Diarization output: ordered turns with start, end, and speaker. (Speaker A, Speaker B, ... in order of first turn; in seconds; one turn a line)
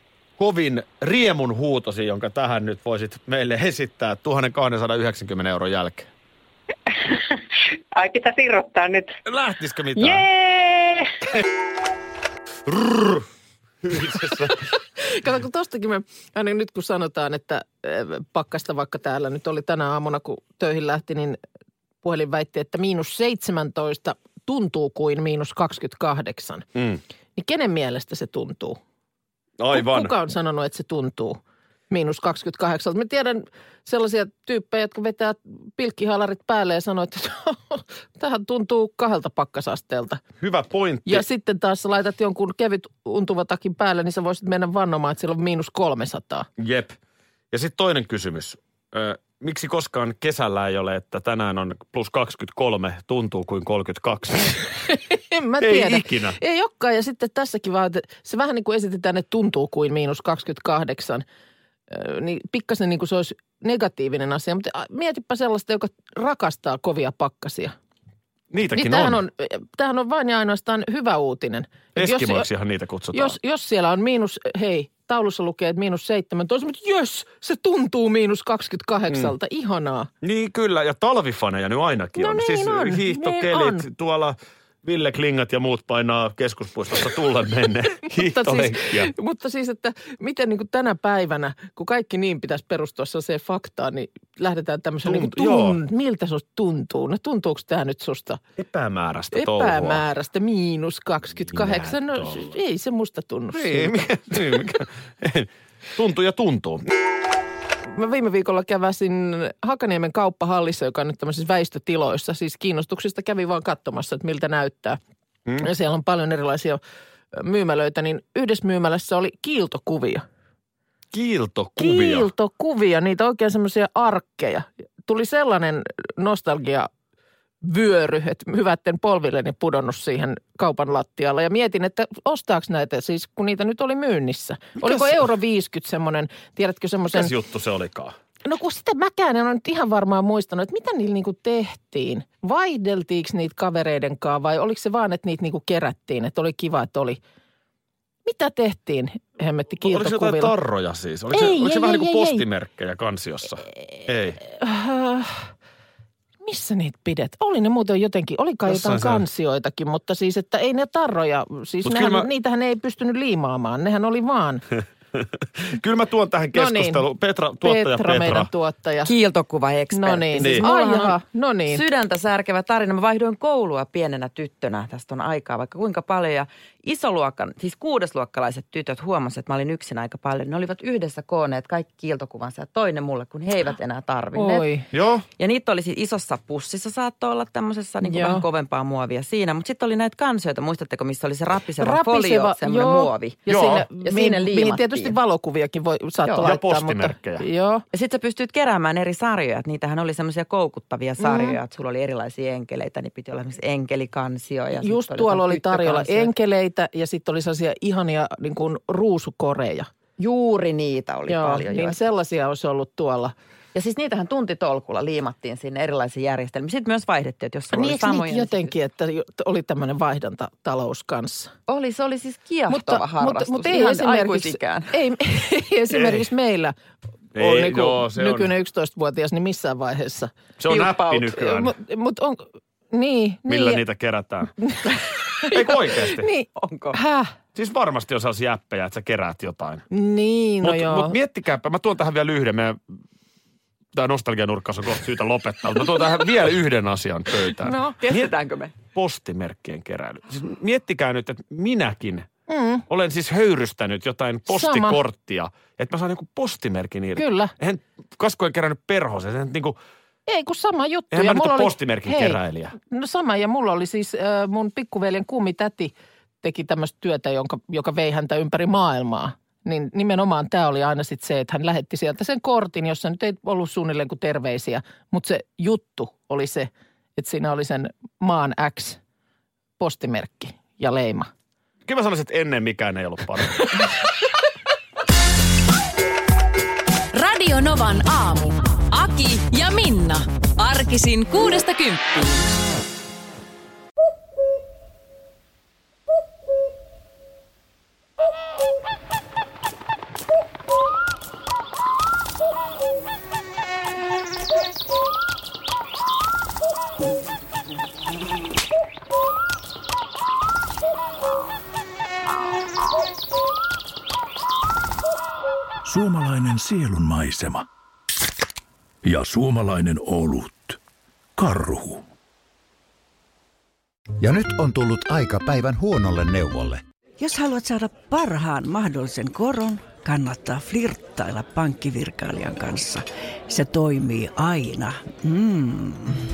Speaker A: 0.4-6.1
Speaker B: 6.9-7.4
Speaker B: 7.9-9.2
Speaker A: 9.3-10.2
Speaker B: 9.9-11.1
Speaker A: 12.7-13.2
Speaker A: 13.8-14.6
Speaker C: 15.0-21.4
Speaker C: 22.0-26.7
Speaker C: 27.4-28.8
Speaker A: 29.6-30.1
Speaker C: 29.7-31.4
Speaker C: 31.9-40.2
Speaker A: 40.4-41.2
Speaker C: 41.1-46.5
Speaker A: 46.6-47.0
Speaker A: 47.5-54.7
Speaker C: 54.9-61.2
Speaker A: 55.6-56.4
Speaker C: 61.9-67.7
Speaker A: 68.5-69.2
Speaker C: 68.8-72.5
Speaker A: 72.0-73.4
Speaker C: 73.1-80.1
Speaker A: 80.2-89.1
Speaker C: 82.2-83.9
Speaker C: 88.1-98.4
Speaker A: 95.0-95.8
Speaker A: 98.6-100.0
Speaker C: 99.3-104.1
Speaker A: 101.5-102.4
Speaker A: 103.5-106.9
Speaker C: 107.9-115.0
Speaker C: 115.6-116.8
Speaker C: 117.3-120.2
Speaker A: 121.1-122.3
Speaker C: 121.8-126.9
Speaker C: 127.6-137.3
Speaker A: 137.1-138.1
Speaker C: 138.4-147.2
Speaker C: 148.2-150.6
Speaker A: 149.8-154.4
Speaker C: 151.3-152.4
Speaker C: 154.5-155.5
Speaker C: 156.4-164.7
Speaker A: 158.7-159.2
Speaker A: 161.8-162.3
Speaker A: 165.7-168.5
Speaker C: 166.5-167.1
Speaker C: 167.6-169.2
Speaker D: 169.0-171.2
Speaker C: 169.9-171.8
Speaker A: 170.4-170.7
Speaker D: 171.7-184.7
Speaker C: 184.3-184.9
Speaker A: 184.9-185.3
Speaker D: 185.4-195.2
Speaker C: 188.0-188.4
Speaker C: 191.8-197.8
Speaker A: 193.5-193.9
Speaker D: 196.2-196.6
Speaker A: 196.4-197.4
Speaker D: 197.9-206.3
Speaker C: 201.2-201.6
Speaker C: 204.8-209.9
Speaker D: 210.2-212.0
Speaker C: 211.3-213.3
Speaker D: 213.7-218.7
Speaker C: 217.7-221.5
Speaker D: 221.7-225.0
Speaker C: 222.7-226.8
Speaker A: 225.9-226.2
Speaker A: 227.3-228.5
Speaker C: 227.4-233.8
Speaker A: 230.6-231.8
Speaker A: 233.5-234.5
Speaker C: 234.6-237.3
Speaker A: 235.5-236.3
Speaker D: 236.6-236.9
Speaker A: 237.6-239.8
Speaker C: 239.9-241.2
Speaker A: 240.6-242.8
Speaker A: 243.9-248.3
Speaker C: 247.6-248.0
Speaker D: 248.0-248.8
Speaker A: 248.9-252.3
Speaker C: 252.5-252.8
Speaker A: 252.9-259.8
Speaker C: 254.5-255.0
Speaker C: 257.2-257.5
Speaker C: 260.3-279.0
Speaker A: 261.1-262.8
Speaker C: 279.8-281.3
Speaker A: 281.9-283.9
Speaker E: 287.1-292.5
Speaker F: 315.8-317.7
Speaker F: 319.0-320.8
Speaker F: 321.4-322.0
Speaker G: 324.2-326.8
Speaker H: 327.2-336.2